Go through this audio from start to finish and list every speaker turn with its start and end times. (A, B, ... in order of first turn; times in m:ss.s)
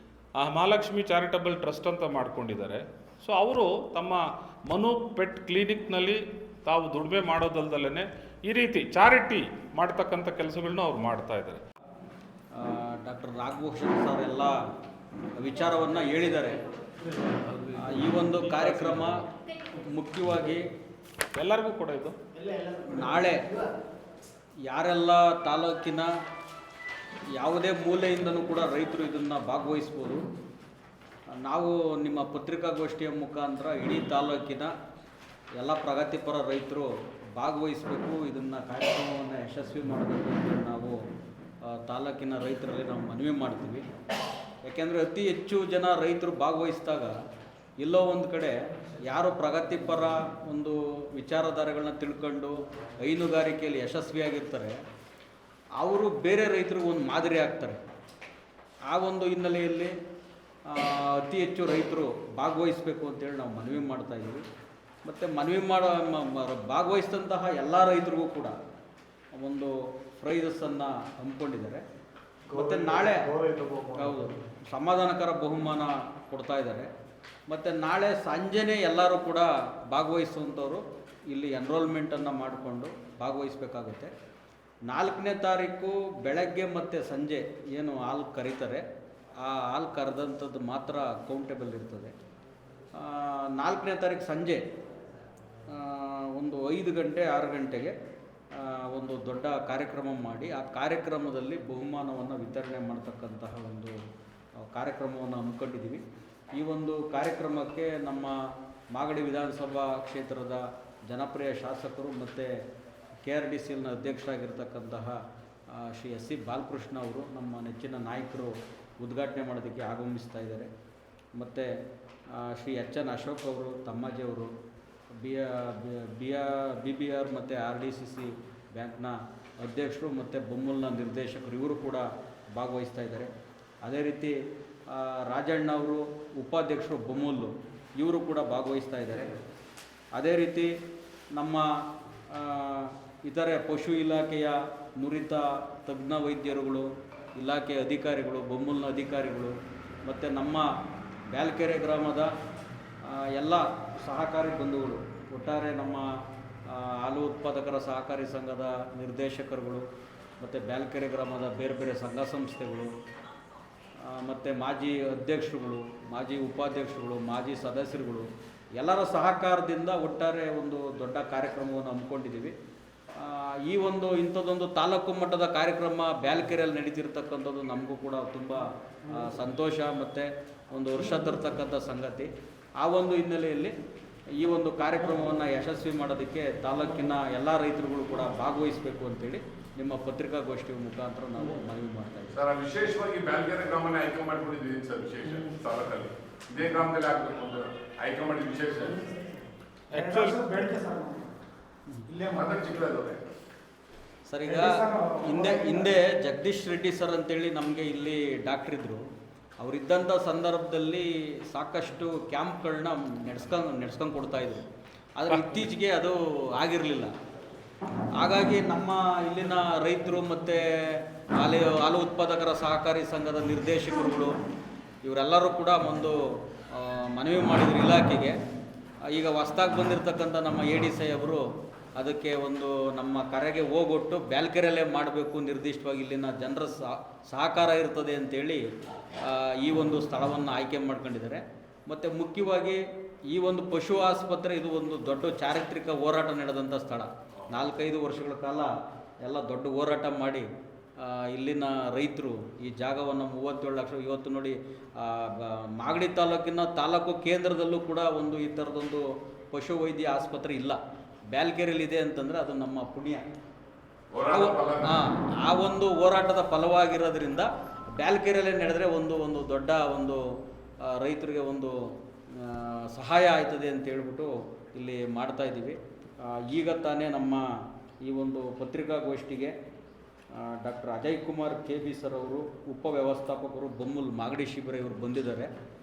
0:00.4-0:11.6 A
0:12.5-0:14.6 B
0:15.4-0:16.6 B
0:17.2-0:19.3 A
0:17.8-0:20.6 B
0:21.3-0:22.2 A
0:22.4-0:23.1 C
0:22.9-0:23.4 B
0:24.7-0:26.1 B
0:27.4-0:30.2 B
0:31.3-0:34.7 B
0:35.6-0:41.0 B
0:41.6-0:43.8 B
0:44.6-0:47.1 B
0:47.8-0:54.8 B
0:55.8-0:57.8 B
0:58.9-0:59.9 B
1:00.7-1:04.4 B
1:05.0-1:08.5 B
1:09.3-1:11.8 B
1:12.5-1:14.4 C
1:12.5-1:13.3 B
1:14.0-1:16.9 B
1:17.5-1:24.1 B
1:24.9-1:28.8 B
1:29.4-1:32.1 B
1:32.9-1:34.6 B
1:35.7-1:37.9 B
1:38.5-1:43.9 B
1:44.6-1:46.0 B
1:46.5-1:48.3 B
1:48.9-1:52.5 B
1:53.2-1:55.2 B
1:55.7-2:00.7 B
2:01.4-2:01.7 B
2:02.3-2:04.5 B
2:05.2-2:13.3 B
2:13.8-2:14.3 B
2:14.9-2:19.4 B
2:20.2-2:20.7 B
2:21.3-2:21.6 B
2:22.3-2:29.5 B
2:30.0-2:30.6 B
2:31.3-2:32.3 B
2:33.0-2:36.0 B
2:36.7-2:39.8 B
2:40.4-2:42.9 B
2:44.1-2:48.3 B
2:48.8-2:52.5 B
2:53.2-3:02.3 B
3:02.8-3:03.7 B
3:04.4-3:12.3 B
3:12.3-3:19.0 D
3:19.9-3:20.5 A
3:19.9-3:21.4 C
3:22.0-3:22.8 C
3:22.3-3:23.2 D
3:24.3-3:29.0 B
3:24.4-3:25.9 C
3:29.6-3:34.6 B
3:35.2-3:37.1 B
3:35.3-3:35.7 A
3:38.2-3:44.3 B
3:45.0-3:46.2 B
3:46.7-3:48.3 B
3:49.1-3:51.4 B
3:52.0-3:58.6 B
3:59.2-4:08.7 B
4:09.2-4:10.4 B
4:11.0-4:20.8 B
4:21.3-4:23.2 B
4:24.1-4:25.0 D
4:24.2-4:30.2 B
4:30.8-4:31.7 B
4:32.3-4:37.4 B
4:38.0-4:39.5 B
4:40.3-4:45.5 B